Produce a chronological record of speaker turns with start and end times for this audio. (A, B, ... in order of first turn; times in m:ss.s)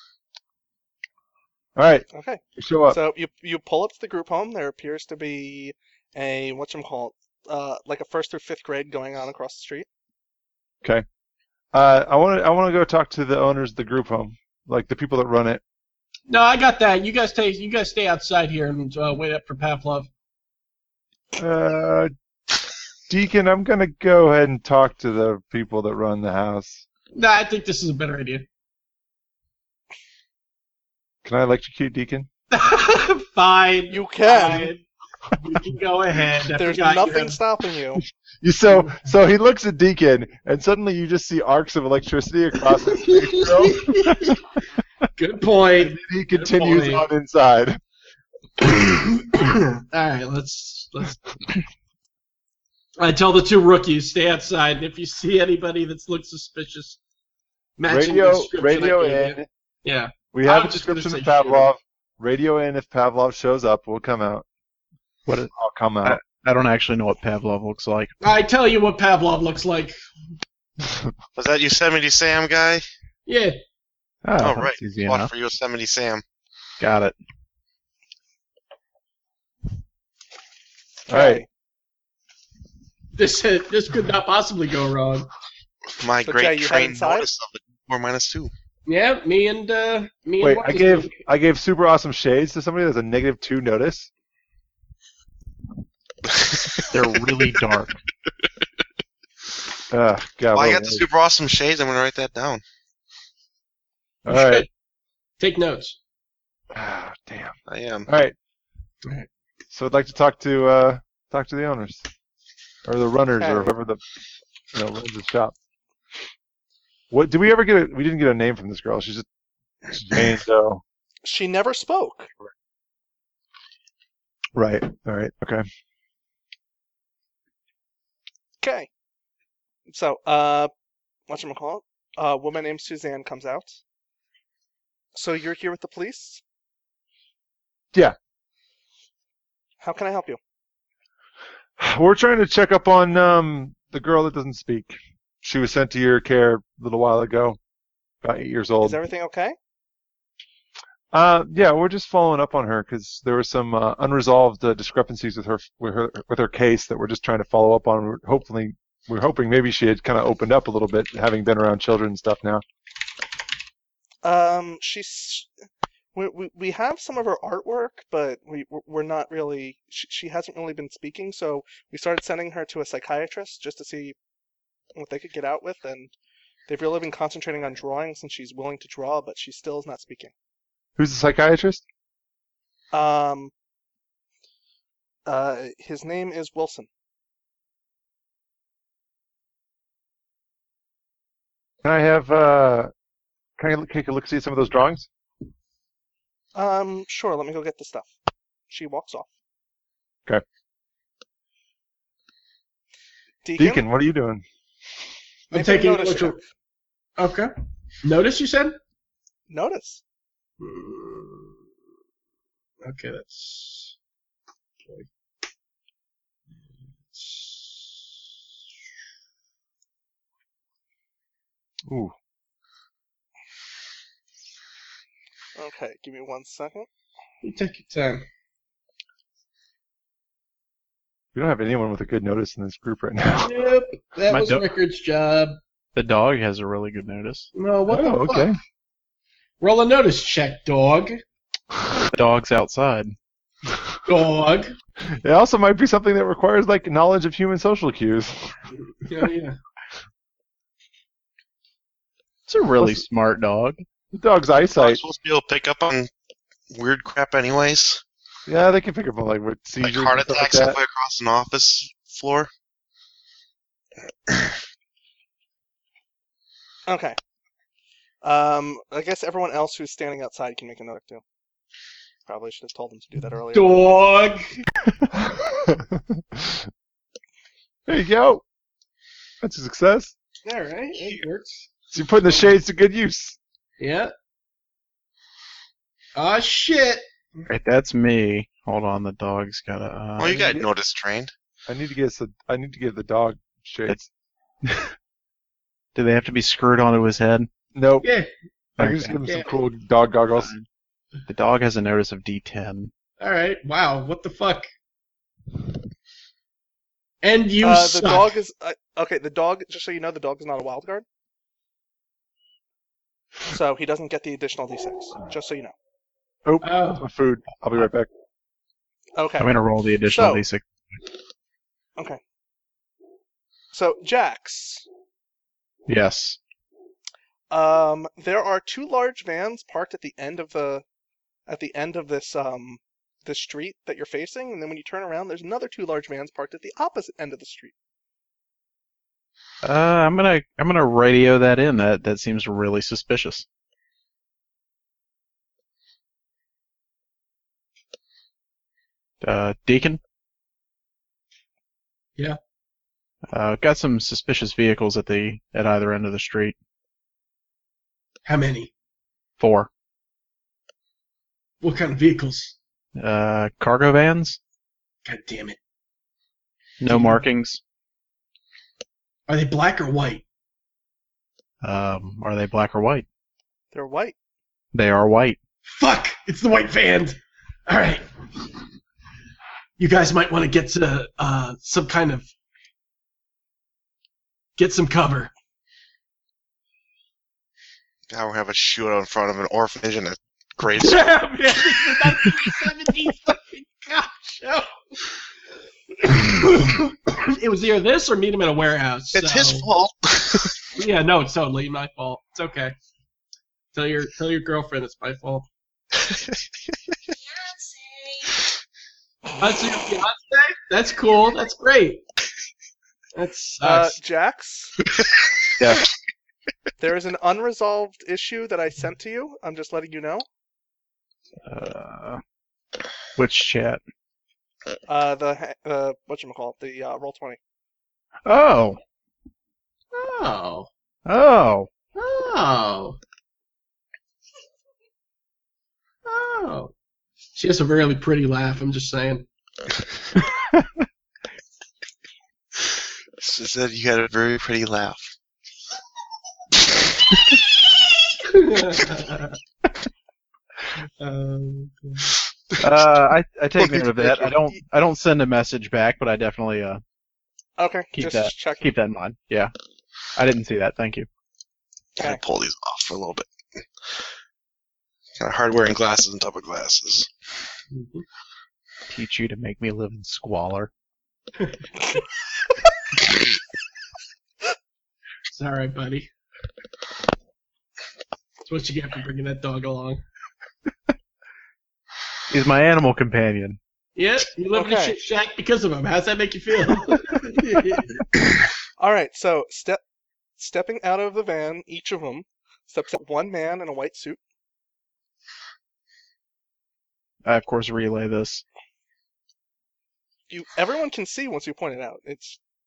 0:01.8-0:03.0 A
0:02.1-0:09.9 B
0:11.7-0:15.6 A
0:16.3-0:20.1 C
0:21.4-0:22.1 A
0:23.1-0:26.8 A
0:27.1-0:28.5 C
0:31.2-0:32.3 A
0:32.5-0:34.8 C
0:33.9-0:34.7 B
0:35.4-0:37.4 C
0:36.6-0:38.0 B
0:38.4-0:44.4 A
0:42.9-0:44.4 C
0:45.2-0:47.1 C
0:45.8-0:47.8 A
0:48.6-0:51.2 C
0:53.0-0:57.0 C
0:57.8-1:01.7 C
0:57.9-0:59.5 A
1:00.3-1:04.4 A
1:05.3-1:06.2 A
1:06.0-1:08.1 D
1:08.2-1:10.0 C
1:11.4-1:12.9 E
1:13.3-1:13.6 C
1:14.2-1:15.3 D
1:14.4-1:16.2 E
1:16.8-1:17.2 D
1:21.1-1:21.4 A
1:21.1-1:21.5 B
1:23.2-1:25.3 C
1:26.0-1:28.5 E
1:26.2-1:27.3 B
1:28.9-1:31.2 C
1:30.4-1:34.1 A
1:36.3-1:36.9 E
1:36.9-1:38.0 D
1:39.9-1:41.0 A
1:40.5-1:42.6 E
1:44.3-1:44.7 A
1:44.3-1:44.7 C
1:45.4-1:46.0 C
1:46.7-1:47.6 A
1:47.7-1:48.1 E
1:48.1-1:48.4 A
1:49.7-1:52.1 A
1:52.8-1:54.0 A
1:53.4-1:53.7 B
1:54.7-1:55.6 A
1:57.1-1:59.3 A
1:59.9-2:00.8 A
2:01.2-2:02.3 B
2:04.6-2:05.7 A
2:08.6-2:08.9 B
2:09.9-2:10.7 B
2:11.3-2:13.8 B
2:15.1-2:16.4 B
2:19.8-2:20.4 B
2:21.8-2:27.6 A
2:28.2-2:29.0 A
2:28.8-2:29.6 B
2:31.1-2:42.6 A
2:44.2-2:45.5 B
2:46.2-2:54.2 B
2:55.0-2:56.1 B
2:56.7-3:00.3 B
3:01.0-3:01.8 A
3:02.9-3:03.5 B
3:05.3-3:06.9 B
3:11.8-3:12.9 A
3:13.6-3:15.1 A
3:16.6-3:18.1 B
3:18.7-3:19.3 B
3:23.4-3:23.8 B
3:23.6-3:24.4 A
3:25.5-3:26.4 C
3:25.5-3:26.4 B
3:27.2-3:27.5 C
3:28.0-3:28.8 C
3:29.5-3:30.0 B
3:30.6-3:31.6 C
3:32.8-3:34.0 C
3:37.1-3:38.0 C
3:41.9-3:42.1 A
3:45.6-3:46.9 B
3:47.4-3:48.2 C
3:51.4-3:53.5 A
3:53.3-3:55.6 C
3:54.3-3:54.6 D
3:56.0-3:57.5 D
3:57.6-3:58.5 C
3:57.9-3:58.6 A
3:59.6-4:01.2 C
4:02.1-4:03.2 D
4:04.0-4:04.7 C
4:05.0-4:08.6 A
4:09.0-4:09.6 C
4:12.5-4:13.8 D
4:14.1-4:15.0 A
4:14.8-4:16.1 E
4:16.7-4:18.0 E
4:18.5-4:20.8 A
4:19.8-4:22.5 E
4:26.9-4:27.2 B
4:28.2-4:31.2 B
4:32.3-4:33.9 B
4:33.5-4:34.6 C
4:35.2-4:36.7 A
4:37.9-4:38.4 A
4:39.4-4:40.1 A
4:40.4-4:41.7 C
4:41.9-4:43.4 A
4:43.8-4:44.1 C
4:46.2-4:47.4 C
4:47.5-4:50.6 D
4:50.2-4:51.3 E
4:50.4-4:50.6 A
4:51.7-4:54.1 A
4:54.7-4:54.9 D
4:56.0-4:57.5 D
4:57.8-4:58.1 A
4:58.0-4:58.3 C
4:58.8-5:00.5 A
4:58.8-4:59.2 D
4:59.2-4:59.5 C
5:00.4-5:00.6 D
5:01.3-5:02.9 D
5:03.2-5:04.7 C
5:07.2-5:08.3 C
5:07.6-5:11.0 B
5:13.5-5:15.7 B
5:16.4-5:18.1 A
5:16.6-5:17.1 C
5:19.2-5:20.5 B
5:19.4-5:20.6 D
5:23.7-5:24.9 B
5:25.9-5:26.4 D
5:27.5-5:30.8 B
5:31.5-5:37.7 B
5:39.6-5:43.4 D
5:49.2-5:50.0 D
5:53.3-5:56.6 D
5:58.2-5:58.7 C
5:59.4-5:59.7 D
6:01.6-6:02.6 C
6:03.0-6:04.4 D
6:05.0-6:05.6 C
6:06.8-6:07.6 D
6:06.9-6:07.3 C
6:09.3-6:10.2 C
6:11.6-6:13.1 D
6:13.7-6:14.2 B
6:14.7-6:15.4 D
6:15.7-6:18.0 C
6:19.8-6:22.3 C
6:24.6-6:25.3 C
6:28.1-6:31.2 E
6:30.8-6:34.7 C
6:36.0-6:39.7 C
6:39.1-6:40.6 E
6:40.8-6:42.8 C
6:43.7-6:45.5 C
6:49.4-6:52.0 C
6:53.2-6:54.0 C
6:53.6-6:54.7 B
6:55.6-6:55.8 D
6:56.8-7:00.3 B
7:01.5-7:02.2 D
7:03.2-7:03.8 D
7:04.9-7:07.4 B
7:08.2-7:08.8 D
7:09.9-7:10.7 C
7:11.1-7:11.7 D
7:12.0-7:13.0 C
7:16.0-7:16.7 C
7:17.4-7:19.3 C
7:23.2-7:25.1 E
7:28.3-7:29.4 C
7:31.0-7:32.1 C
7:32.6-7:36.8 D
7:37.6-7:38.7 B
7:37.9-7:39.5 D
7:40.2-7:41.1 D
7:42.0-7:43.6 E
7:45.2-7:47.1 E
7:47.7-7:48.0 C
7:48.9-7:50.7 D
7:55.3-7:56.1 C
7:58.5-8:00.0 C
8:02.3-8:03.6 D
8:04.0-8:08.0 C
8:04.5-8:05.0 B
8:08.8-8:09.8 B
8:10.4-8:14.2 B
8:17.2-8:18.4 D
8:20.3-8:22.4 B